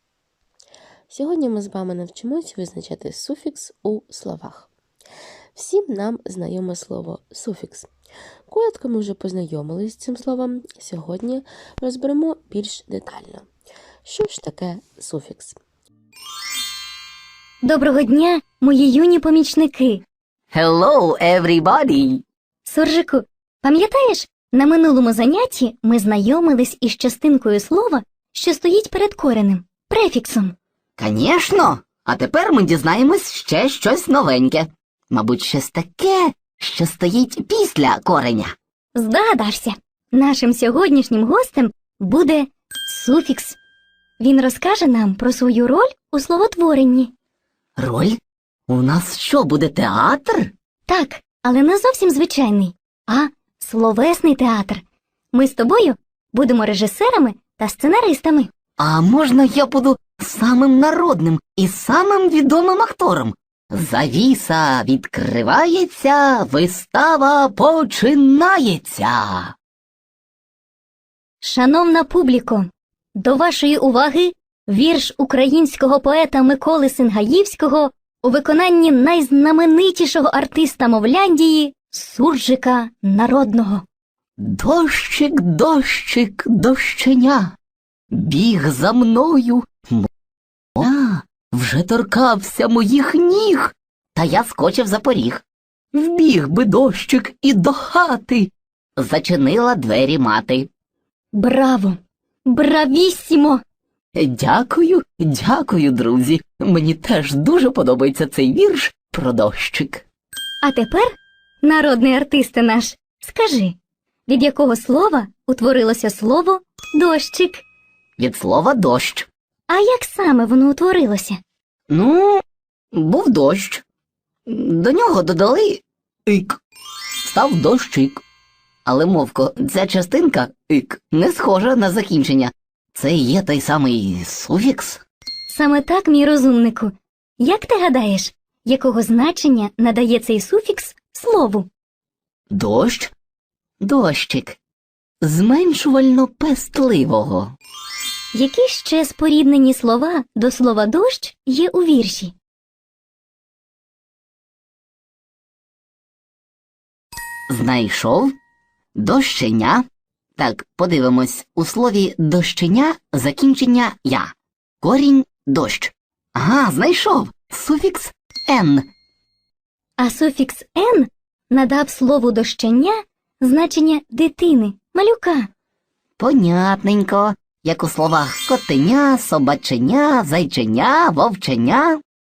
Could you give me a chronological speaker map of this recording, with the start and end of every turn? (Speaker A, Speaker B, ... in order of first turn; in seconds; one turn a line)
Speaker A: 1.1-4.7
Speaker A: 5.5-7.9
Speaker A: 8.5-13.5
Speaker A: 14.0-15.6
Speaker B: 17.6-20.0
Speaker C: 20.5-22.2
Speaker B: 22.6-30.5
Speaker C: 31.0-38.5
Speaker B: 38.9-43.6
Speaker B: 44.2-47.1
Speaker C: 47.8-50.5
Speaker B: 50.9-54.8
Speaker B: 55.3-58.5
Speaker C: 58.8-69.5
Speaker B: 71.4-83.8
Speaker C: 84.4-87.5
Speaker C: 88.1-90.1
Speaker C: 90.8-100.7
Speaker B: 101.3-103.6
Speaker C: 104.2-110.0
Speaker B: 110.6-111.1
Speaker B: 111.6-113.7
Speaker B: 114.3-117.6
Speaker C: 118.2-119.3
Speaker B: 119.7-121.4
Speaker C: 121.9-123.8
Speaker C: 124.5-126.6
Speaker C: 127.2-128.2
Speaker C: 128.8-135.0
Speaker B: 135.5-141.7
Speaker C: 142.5-143.1
Speaker C: 143.8-144.6
Speaker C: 145.2-147.5
Speaker B: 148.3-152.3
Speaker C: 157.5-158.3
Speaker C: 158.9-159.8
Speaker C: 160.4-168.9
Speaker B: 170.0-175.5
Speaker C: 176.2-182.0